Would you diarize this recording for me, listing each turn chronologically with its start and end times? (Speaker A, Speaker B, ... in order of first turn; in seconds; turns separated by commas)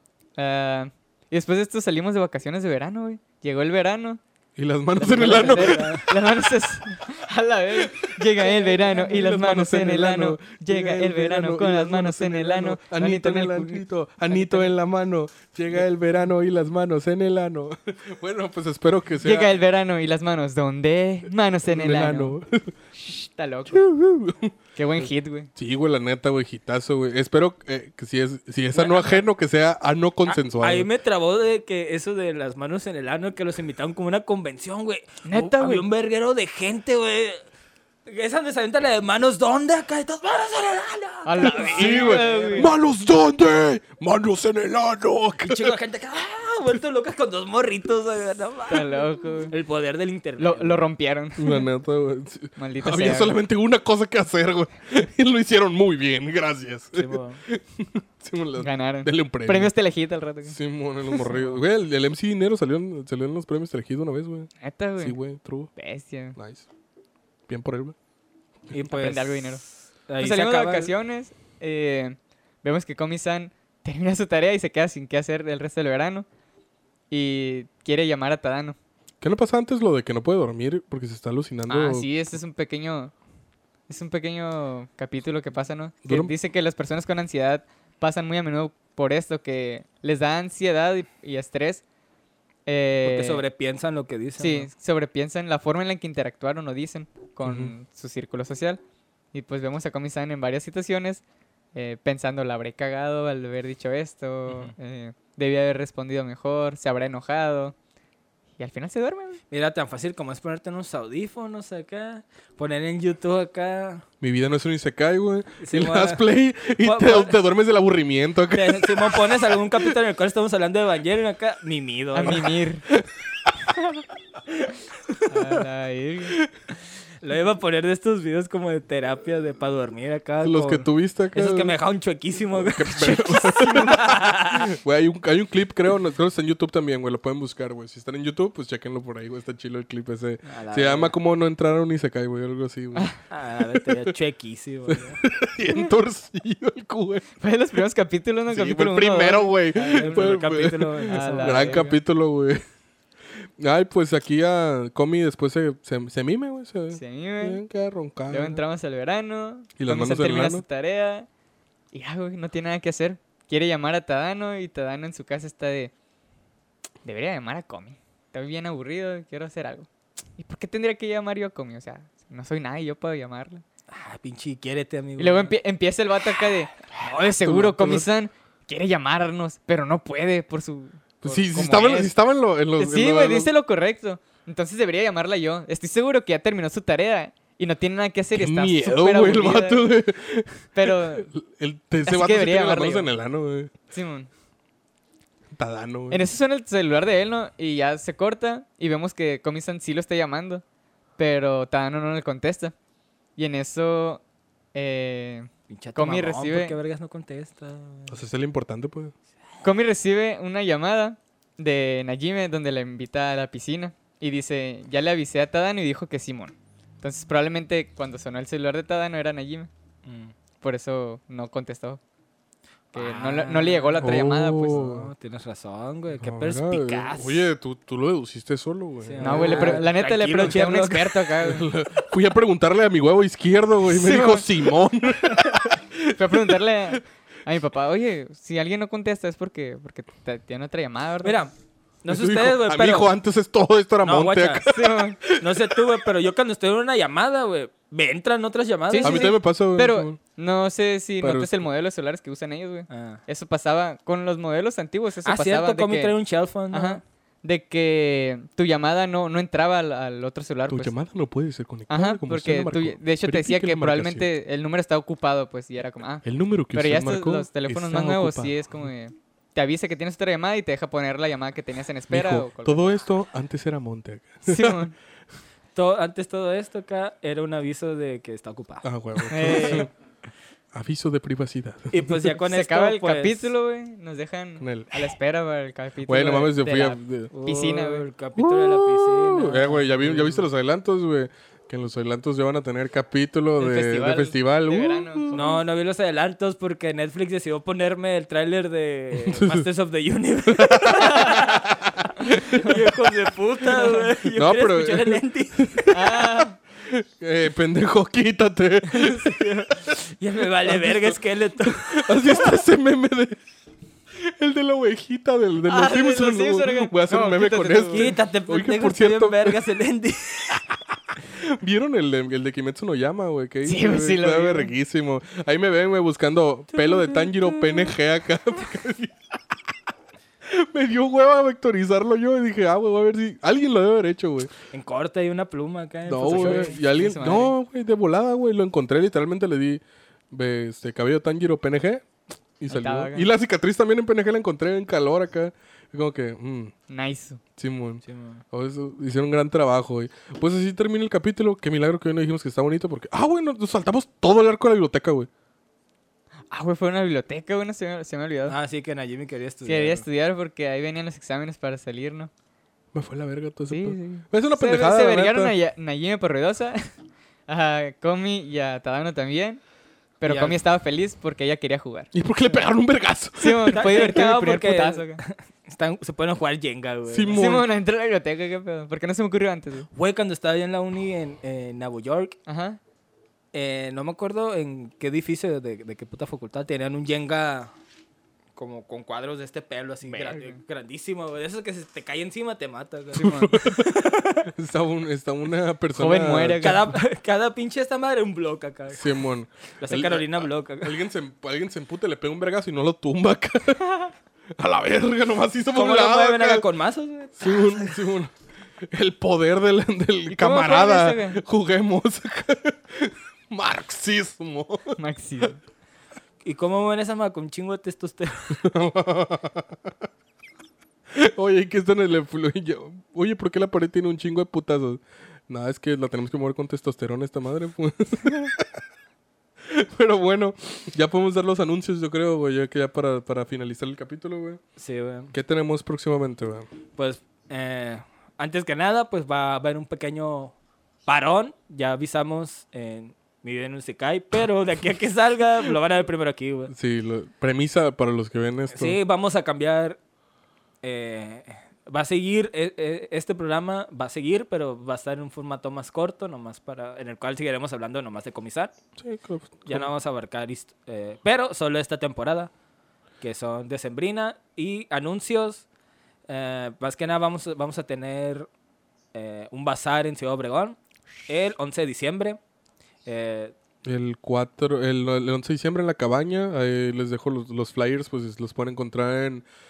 Speaker A: 0.4-4.2, Speaker B: 4.6-6.2, Speaker A: 5.0-14.7, Speaker C: 5.1-6.1, Speaker B: 7.8-19.5, Speaker A: 19.2-22.4, Speaker B: 21.7-22.8, Speaker A: 22.9-23.8, Speaker B: 23.7-30.9, Speaker A: 24.8-25.5, Speaker C: 28.7-29.2, Speaker C: 30.3-37.5, Speaker A: 35.3-35.9, Speaker C: 38.1-42.7, Speaker A: 41.2-42.7, Speaker B: 41.6-45.8, Speaker C: 45.4-50.8, Speaker A: 48.7-49.5, Speaker A: 50.4-51.6, Speaker B: 51.4-59.7, Speaker A: 52.6-53.4, Speaker C: 56.9-57.4, Speaker A: 58.6-60.6, Speaker B: 60.5-65.7, Speaker A: 61.1-61.5, Speaker A: 64.6-65.2, Speaker A: 65.8-66.4, Speaker B: 66.3-66.7, Speaker B: 67.5-68.0, Speaker C: 68.7-70.9, Speaker A: 68.9-76.3, Speaker A: 77.1-78.8, Speaker B: 79.2-82.1, Speaker A: 81.7-83.1, Speaker A: 83.9-91.8, Speaker B: 86.0-86.3, Speaker A: 92.7-93.4, Speaker C: 93.0-94.7, Speaker A: 94.4-98.8, Speaker B: 97.4-97.7, Speaker A: 99.3-101.2, Speaker A: 101.7-107.8, Speaker C: 104.5-104.7, Speaker A: 108.6-109.4, Speaker C: 109.5-114.0, Speaker B: 114.2-119.9, Speaker C: 115.6-116.2, Speaker C: 116.8-117.4, Speaker C: 118.5-122.5, Speaker A: 122.1-122.9, Speaker B: 122.9-123.7, Speaker A: 125.3-126.4, Speaker C: 127.2-134.7, Speaker B: 130.4-131.8, Speaker B: 132.5-144.1, Speaker C: 140.4-141.2, Speaker C: 143.3-145.2, Speaker B: 144.9-147.3, Speaker A: 147.4-150.4, Speaker B: 148.5-152.6, Speaker C: 149.8-152.0, Speaker A: 151.1-151.9, Speaker B: 153.4-158.6, Speaker A: 156.9-157.6, Speaker A: 158.3-161.3, Speaker B: 159.8-160.6, Speaker A: 161.9-165.9, Speaker A: 167.0-173.6, Speaker C: 173.9-175.5, Speaker A: 175.2-182.1, Speaker B: 177.2-178.1, Speaker B: 181.2-183.5, Speaker A: 182.8-189.8, Speaker B: 188.3-193.7, Speaker A: 190.8-191.3, Speaker A: 192.1-193.1, Speaker A: 193.9-194.3, Speaker B: 195.5-196.2, Speaker A: 196.1-200.6, Speaker A: 201.2-202.8, Speaker A: 203.4-204.2, Speaker A: 204.7-206.8, Speaker C: 205.7-208.2, Speaker B: 208.1-209.1, Speaker A: 209.6-219.7, Speaker C: 220.1-220.3, Speaker A: 220.6-222.0, Speaker C: 222.9-227.5, Speaker A: 222.9-224.8, Speaker B: 224.0-225.1, Speaker B: 226.2-229.9, Speaker C: 229.0-231.6, Speaker A: 229.2-231.7, Speaker B: 231.4-237.0, Speaker A: 233.9-234.7, Speaker A: 236.2-241.4, Speaker C: 241.2-243.1, Speaker B: 242.1-245.8, Speaker C: 244.0-244.7, Speaker A: 244.7-245.2, Speaker C: 245.3-249.3, Speaker A: 248.9-256.2, Speaker B: 249.0-250.2, Speaker B: 251.2-251.6, Speaker C: 252.9-253.2, Speaker C: 255.2-257.0, Speaker A: 256.7-260.9, Speaker B: 260.7-264.3, Speaker A: 261.9-273.0, Speaker B: 266.2-268.9, Speaker B: 272.1-274.8, Speaker A: 274.4-274.9, Speaker C: 275.8-278.9, Speaker B: 278.8-279.9, Speaker A: 279.3-279.9, Speaker C: 279.4-279.9, Speaker B: 280.7-282.3, Speaker C: 281.9-283.5, Speaker A: 282.4-288.1, Speaker B: 284.6-285.1, Speaker B: 286.1-287.3, Speaker C: 287.3-290.4, Speaker B: 288.4-295.3, Speaker A: 293.6-295.6, Speaker C: 295.3-301.7, Speaker B: 299.3-299.7, Speaker B: 300.5-302.8, Speaker C: 302.5-305.9, Speaker B: 304.4-309.9, Speaker A: 305.9-306.6, Speaker C: 308.9-312.6, Speaker B: 310.6-313.4, Speaker B: 314.1-319.6, Speaker A: 315.7-318.2, Speaker C: 317.9-320.7, Speaker B: 321.2-329.2, Speaker A: 323.6-324.7, Speaker C: 326.8-327.9, Speaker B: 330.4-334.5, Speaker C: 334.7-336.8, Speaker B: 336.1-346.7, Speaker A: 336.2-337.5, Speaker A: 342.7-343.3, Speaker A: 346.9-347.4, Speaker B: 347.6-355.3, Speaker C: 348.0-348.4, Speaker A: 356.5-358.6, Speaker C: 358.5-360.1, Speaker A: 359.7-362.3, Speaker B: 362.9-365.6, Speaker A: 363.7-366.9, Speaker A: 367.5-369.6, Speaker A: 370.2-372.1, Speaker C: 370.2-370.6, Speaker B: 372.1-374.1, Speaker A: 373.4-375.2, Speaker C: 373.7-377.4, Speaker B: 377.1-377.7, Speaker A: 377.3-379.9, Speaker C: 379.9-382.4, Speaker A: 382.5-382.8, Speaker C: 383.5-387.7, Speaker C: 388.6-394.5, Speaker A: 390.0-390.6, Speaker A: 393.1-393.5, Speaker B: 393.2-393.9, Speaker B: 394.5-396.9, Speaker A: 395.9-396.9, Speaker C: 396.6-399.2, Speaker B: 398.9-403.9, Speaker C: 399.8-401.0, Speaker B: 404.6-406.6, Speaker C: 405.7-408.0, Speaker B: 407.4-415.0, Speaker A: 410.3-411.4, Speaker A: 415.0-415.6, Speaker C: 416.4-418.6, Speaker B: 418.6-419.9, Speaker B: 421.1-428.8, Speaker B: 429.6-434.6, Speaker C: 434.8-435.3, Speaker B: 435.3-436.7, Speaker C: 437.0-446.7, Speaker B: 446.7-449.0, Speaker C: 448.7-450.0, Speaker C: 450.8-458.8, Speaker B: 459.0-459.9, Speaker C: 459.7-462.5, Speaker C: 463.2-465.7, Speaker C: 466.3-468.5, Speaker C: 469.1-472.4, Speaker C: 473.1-473.5, Speaker B: 473.8-479.4